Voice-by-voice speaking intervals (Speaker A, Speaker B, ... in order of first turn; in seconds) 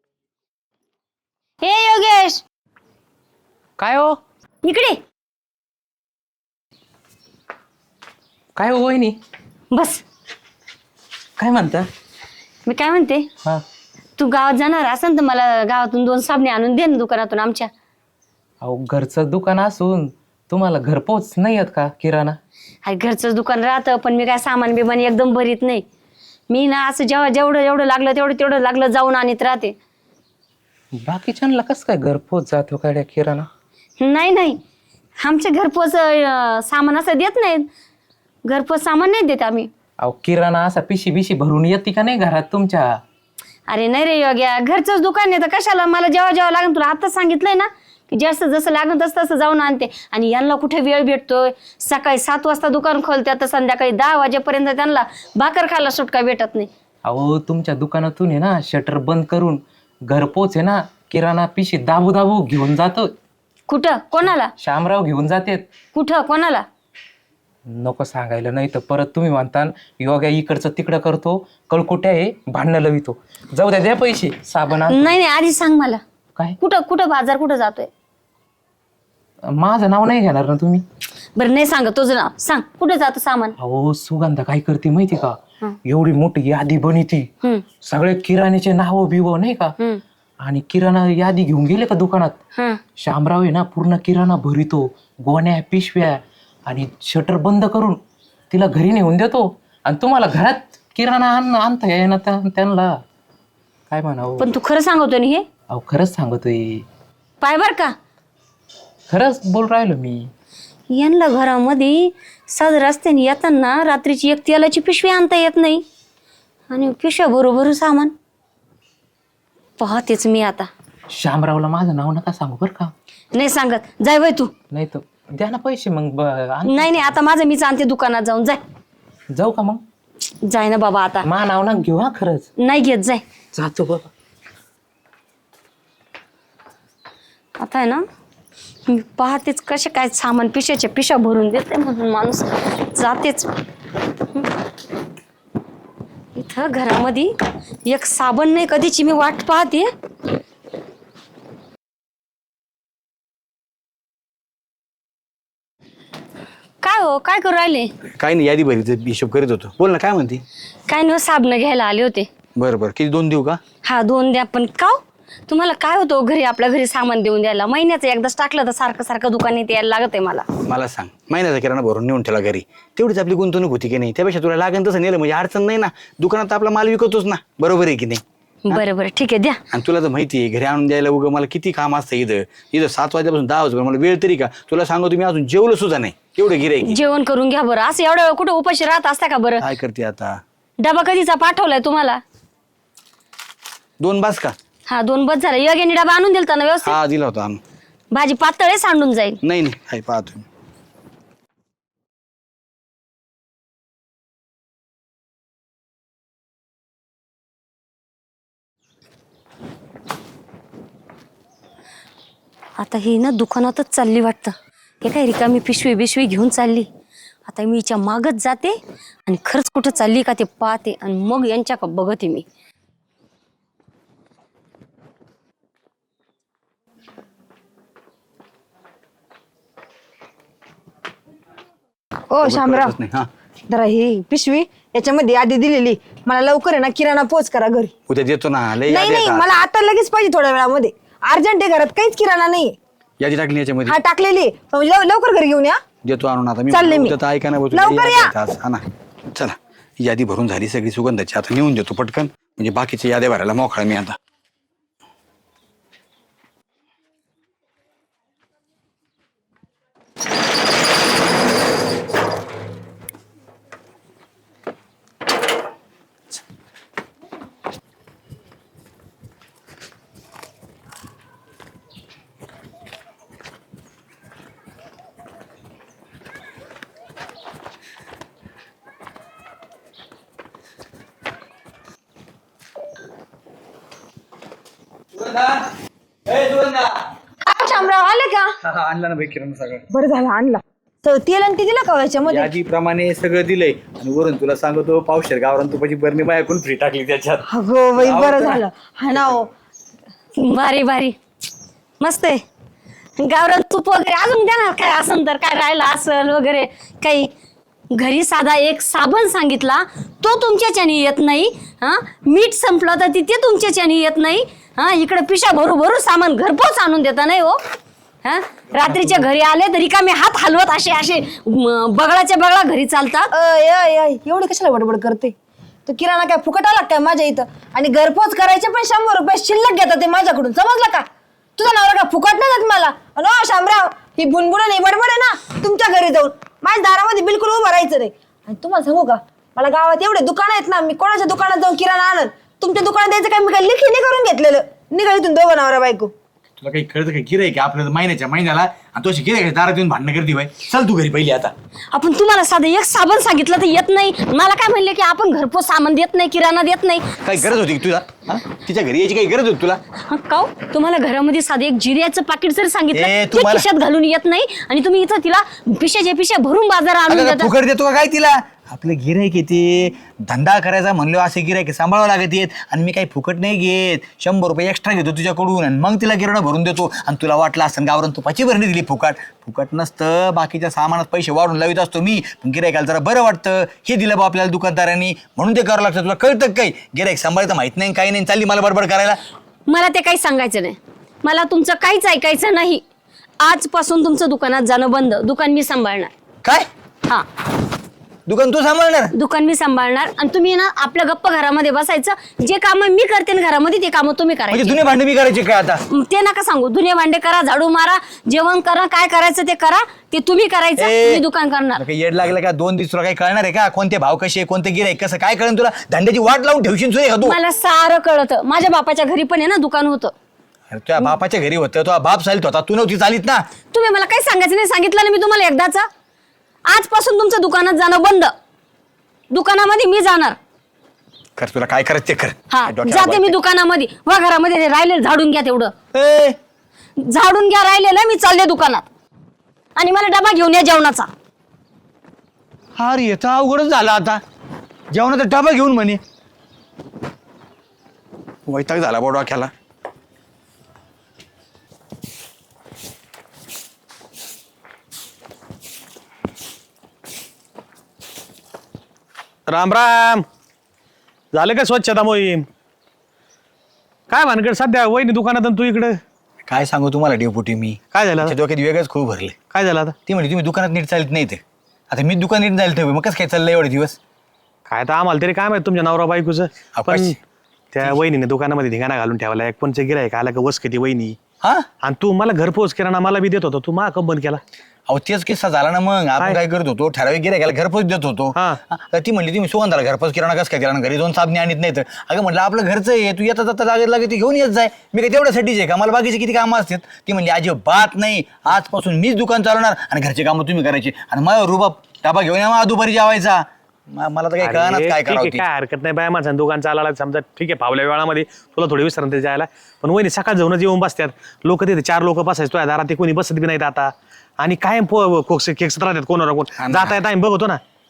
Speaker A: 1.6-2.4, 4.6-5.0, 9.7-10.0, 12.7-13.3, 14.2-17.7, 22.9-25.9, 26.5-29.8, 34.0-34.6, 35.2-37.7, 38.5-39.7, 43.7-56.7, 63.7-64.5, 65.9-66.6, 74.9-76.0, 76.6-77.9, 81.4-83.5, 104.4-105.5, 107.4-107.9, 110.9-115.8, 116.7-118.1, 119.8-120.7, 123.3-124.5, 126.7-128.6, 130.4-131.3, 132.6-133.2, 137.6-138.0, 138.9-143.5, 146.3-147.3, 147.8-149.9, 156.8-157.9, 160.9-162.3, 163.8-170.5, 178.7-179.6, 186.8-189.7, 190.8-192.2, 194.9-197.0, 198.1-199.4, 212.8-216.9, 217.5-222.4, 300.4-301.1, 302.0-302.4, 303.2-307.3, 307.9-317.6, 318.2-323.3, 351.9-357.4, 360.1-367.5, 389.7-392.8, 393.4-396.1, 399.1-404.8, 405.9-411.8, 417.2-420.1, 423.7-425.9, 426.7-428.3, 429.3-430.4, 432.5-435.7, 437.0-438.9, 439.8-441.1
Speaker B: 3.8-4.2, 8.6-9.2, 11.4-11.8, 18.6-22.4, 31.0-33.5, 40.0-43.0, 57.0-63.1, 64.2-65.7, 67.7-75.2, 79.6-80.8, 83.6-87.3, 87.8-89.8, 90.4-92.4, 93.0-103.0, 103.9-104.5, 105.7-106.8, 109.1-110.3, 121.1-122.9, 124.7-127.2, 129.3-129.8, 131.2-132.5, 133.5-134.1
Speaker C: 158.2-160.4, 162.6-163.6, 170.7-178.8, 179.7-187.0, 189.6-190.4, 194.0-194.6, 196.8-197.6, 199.4-200.4, 232.4-233.3, 238.1-239.5, 243.2-244.0, 246.0-254.2, 285.2-285.6, 286.3-287.1, 288.6-289.9, 292.2-297.4, 298.0-298.6, 299.1-299.4, 346.6-351.5, 357.2-359.8, 362.9-363.7, 367.1-389.2, 398.3-399.1, 404.5-405.8, 410.8-411.2, 411.8-417.4, 420.7-423.4, 431.4-433.4, 435.9-436.4, 442.8-444.2, 444.9-446.0, 448.5-449.5, 466.5-469.4, 470.1-474.0, 476.8-477.2, 481.4-481.7, 484.9-505.4, 516.6-517.0
Speaker D: 232.3-232.9, 233.7-237.9, 238.9-242.8, 243.9-245.8, 246.7-247.2, 247.7-248.3, 287.4-288.5, 289.9-292.5, 297.5-299.5, 323.3-325.3, 325.9-331.1, 331.6-346.1
Speaker E: 459.5-460.3, 461.3-462.5, 464.1-466.0, 467.9-468.3, 469.5-470.0, 474.7-477.2, 477.7-481.2, 481.8-484.4, 504.4-517.6